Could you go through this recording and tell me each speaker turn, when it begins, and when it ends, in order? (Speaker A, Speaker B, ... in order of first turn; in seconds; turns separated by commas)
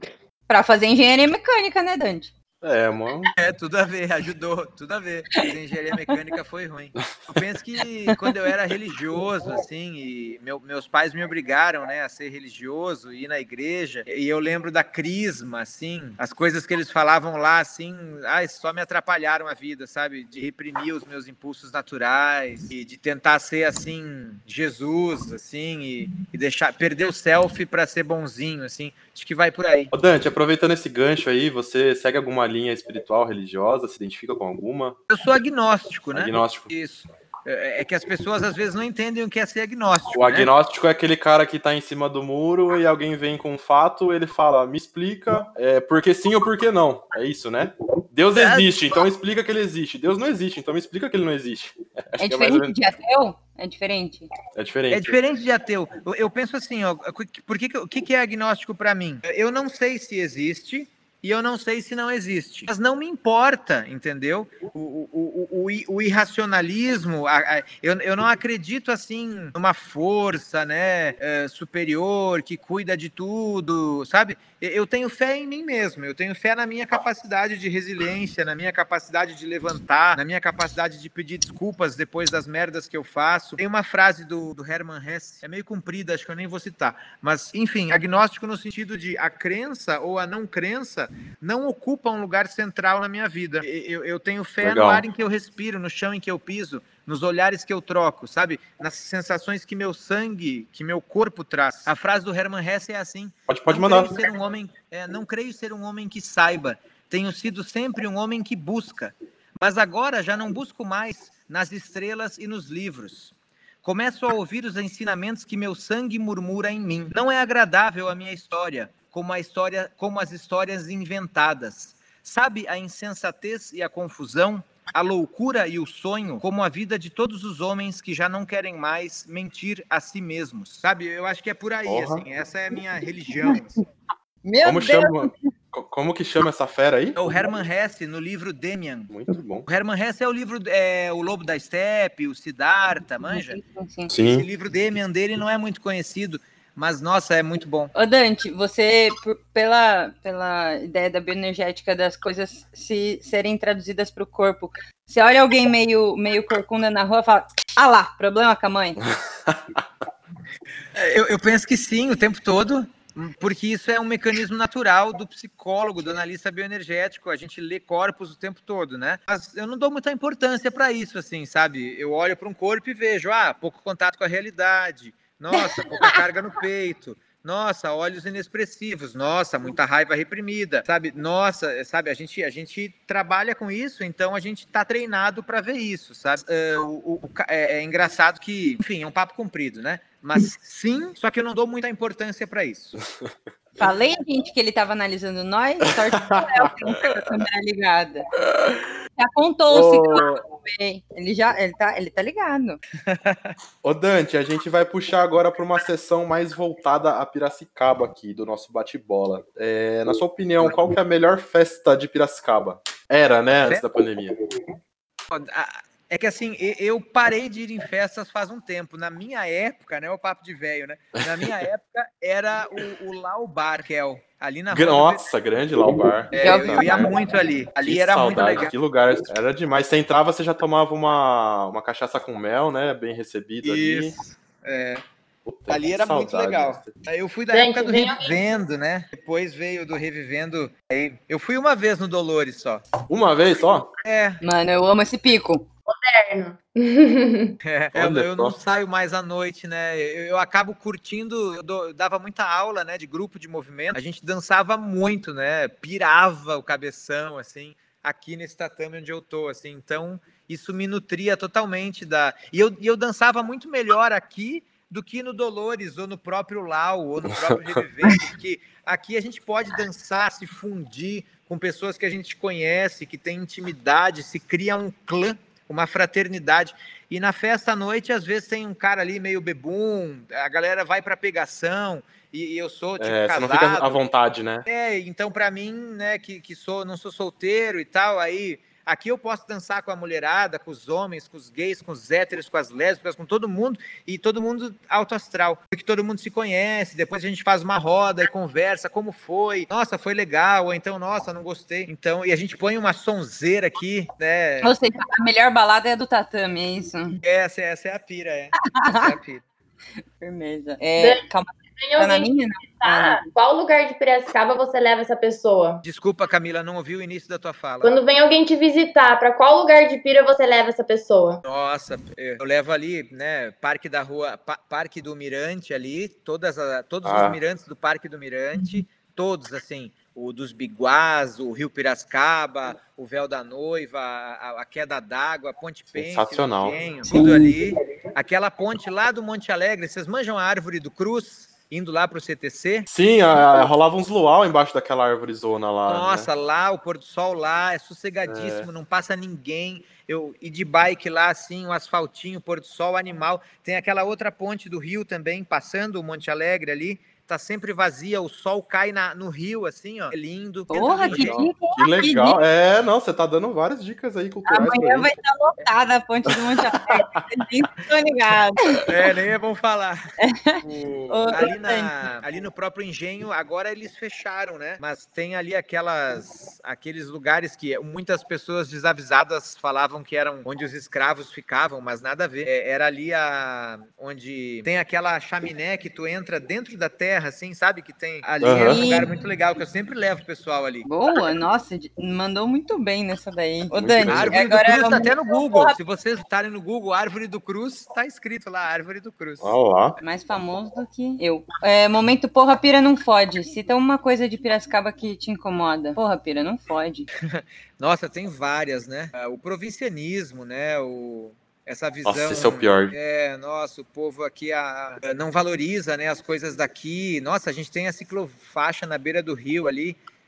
Speaker A: 0.5-2.3, Speaker B: 2.6-3.3, Speaker C: 3.4-29.9, Speaker B: 29.9-35.0, Speaker C: 35.1-40.5, Speaker B: 36.1-36.7, Speaker B: 40.1-52.8, Speaker C: 48.3-48.7, Speaker A: 52.2-54.3, Speaker B: 54.5-55.2, Speaker C: 54.9-133.8, Speaker B: 94.6-95.0, Speaker B: 103.5-104.2, Speaker B: 131.8-132.2, Speaker A: 133.4-133.8, Speaker A: 134.4-135.3, Speaker B: 134.6-137.2, Speaker C: 137.1-139.1, Speaker B: 139.1-139.7, Speaker C: 139.6-143.6, Speaker A: 143.2-144.1, Speaker B: 144.1-144.4, Speaker C: 144.2-147.9, Speaker A: 147.9-159.0, Speaker B: 159.0-159.8, Speaker C: 160.9-193.0, Speaker A: 175.5-176.1, Speaker A: 193.8-198.3, Speaker B: 196.3-196.7, Speaker A: 199.2-202.8, Speaker B: 199.7-200.4, Speaker C: 203.0-203.5, Speaker B: 203.8-214.3, Speaker C: 215.3-225.2, Speaker B: 221.4-221.6, Speaker B: 224.7-227.1, Speaker C: 226.3-228.7, Speaker A: 226.4-227.1, Speaker B: 227.8-234.2, Speaker C: 233.6-235.0, Speaker B: 235.4-236.9, Speaker C: 235.7-242.8, Speaker D: 237.5-238.3, Speaker B: 243.1-243.9, Speaker C: 244.0-244.4, Speaker A: 244.4-245.7, Speaker D: 245.9-247.6, Speaker C: 247.6-284.0, Speaker B: 247.9-248.6, Speaker B: 283.0-284.6, Speaker C: 284.6-304.7, Speaker A: 304.6-307.2, Speaker C: 307.2-309.4, Speaker A: 308.7-309.1, Speaker A: 310.2-313.2, Speaker D: 311.8-315.8, Speaker C: 315.8-317.9, Speaker D: 317.8-321.4, Speaker C: 321.4-342.9, Speaker B: 327.0-327.4, Speaker B: 335.9-337.3, Speaker B: 342.9-346.3, Speaker C: 345.9-361.5, Speaker B: 348.2-348.7, Speaker A: 360.7-362.4, Speaker B: 361.1-365.1, Speaker A: 364.5-368.9, Speaker B: 366.3-367.2, Speaker C: 368.9-370.0, Speaker A: 370.2-371.9, Speaker C: 370.6-390.9, Speaker B: 388.4-388.8, Speaker A: 388.6-389.1, Speaker A: 390.9-395.8, Speaker B: 393.7-394.4, Speaker C: 394.1-399.5, Speaker B: 399.4-400.0, Speaker A: 400.0-407.1, Speaker C: 407.2-420.0, Speaker B: 412.0-412.9